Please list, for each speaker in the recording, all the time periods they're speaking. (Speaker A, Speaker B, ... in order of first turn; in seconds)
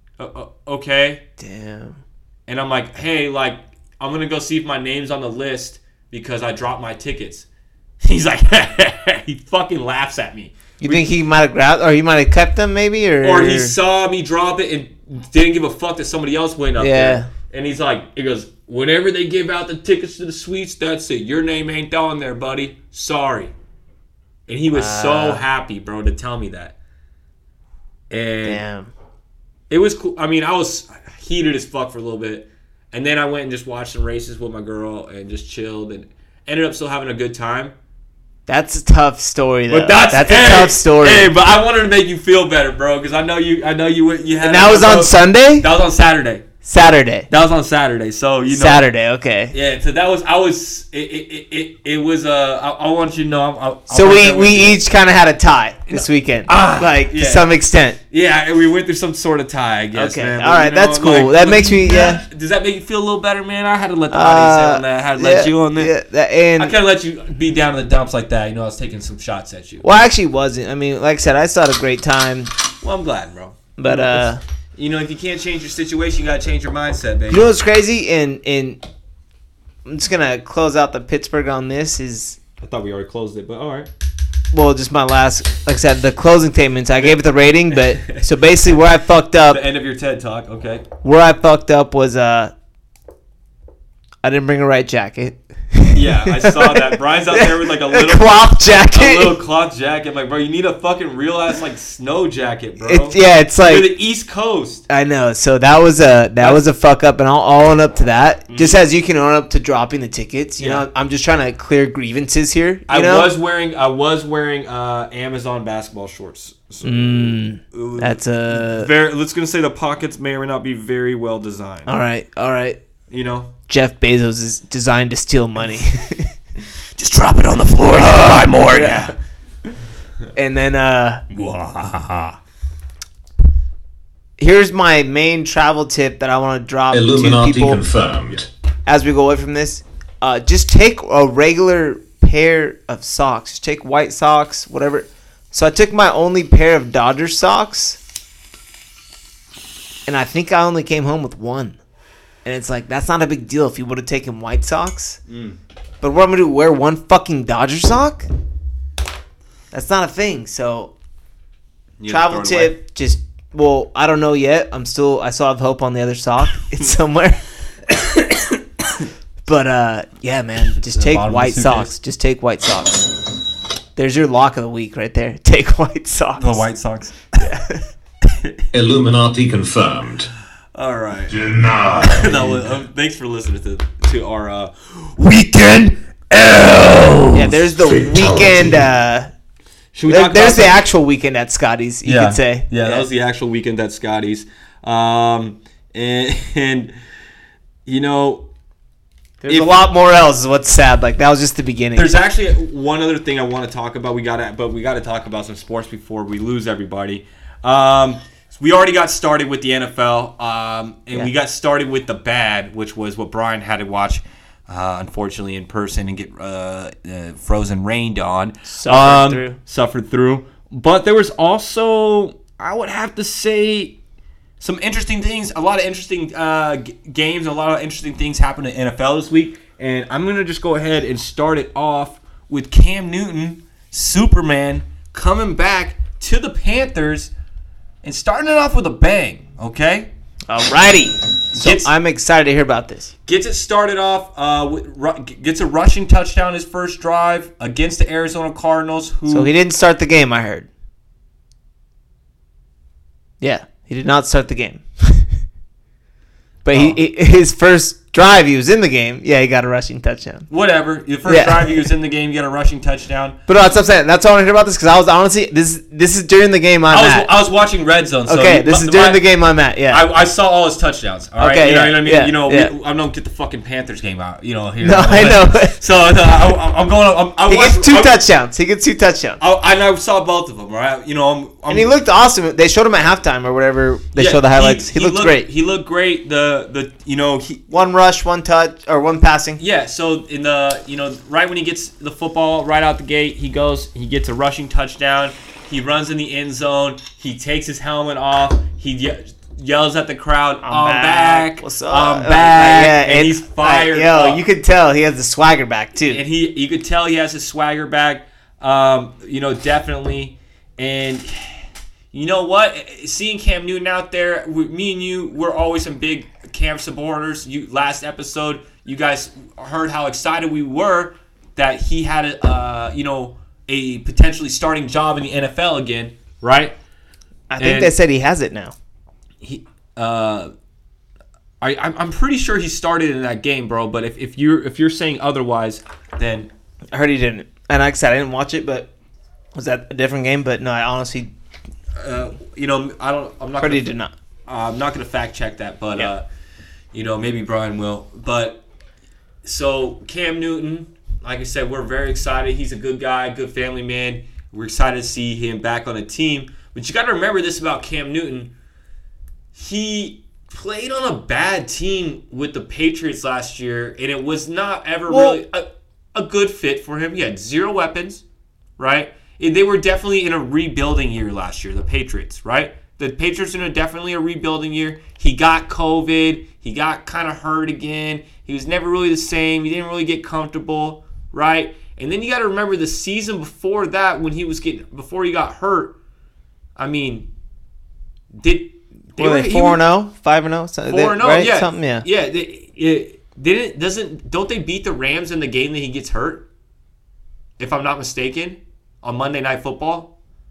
Speaker A: 0.2-1.2, 2.5-7.5, 8.0-11.1, 13.2-23.5, 24.5-26.8, 28.1-28.6, 29.7-37.7, 39.7-46.5, 47.3-48.8, 49.5-54.8, 55.9-57.5, 58.1-65.9, 66.6-69.8, 72.8-77.5, 82.6-83.9, 87.7-88.2, 89.5-90.9, 95.9-104.8, 108.5-108.8, 110.6-110.8, 112.9-122.0, 123.1-123.5, 127.0-129.2, 131.3-132.4, 155.3-155.6, 162.0-162.7, 170.9-171.9, 176.4-177.2, 180.7-187.6, 189.9-190.8, 192.0-196.9, 197.8-198.5, 199.5-199.8, 201.9-224.0, 224.6-237.3, 238.0-240.1, 241.5-241.9, 243.3-249.5, 256.7-257.0, 260.5-263.4, 266.9-269.2, 269.9-278.2, 279.4-281.9, 284.1-287.6, 289.6-304.4, 306.1-326.8, 327.6-327.9, 329.4-330.5, 331.6-336.5, 341.9-343.9, 344.5-346.2, 346.9-348.6, 349.4-358.5, 359.5-368.2, 368.8-385.9, 386.8-387.3, 388.3-389.8, 390.9-396.4, 397.6-400.1
Speaker B: 1.4-2.0, 10.8-13.7, 16.8-17.3, 24.7-25.4, 28.4-28.9, 38.5-41.3, 44.4-45.7, 46.6-47.3, 48.5-49.5, 53.9-58.0, 59.9-62.2, 64.1-66.7, 69.8-72.5, 73.8-74.4, 77.3-78.8, 79.8-82.4, 84.5-89.6, 91.0-92.5, 94.2-99.4, 102.8-103.9, 104.9-113.3, 116.8-118.9, 121.8-122.8, 123.7-126.3, 127.9-129.1, 130.3-131.2, 134.4-137.8, 138.8-148.0, 150.1-151.8, 152.4-155.2, 156.0-158.3, 159.7-160.9, 162.1-167.4, 169.4-173.1, 173.9-176.7, 177.3-177.8, 187.3-189.3, 190.1-193.1, 199.4-202.1, 218.7-219.6, 240.5-243.1, 249.3-250.7, 253.4-255.3, 256.6-260.5, 261.2-261.9, 263.5-267.3, 268.3-270.0, 271.4-272.7, 274.8-275.8, 277.5-279.4, 281.7-285.4, 287.7-289.6, 300.6-306.2, 327.5-328.7, 336.9-338.9, 339.5-341.3, 343.6-344.1, 365.1-365.4, 389.2-392.1
Speaker C: 136.9-138.5, 178.7-180.3, 181.3-182.6, 187.8-188.9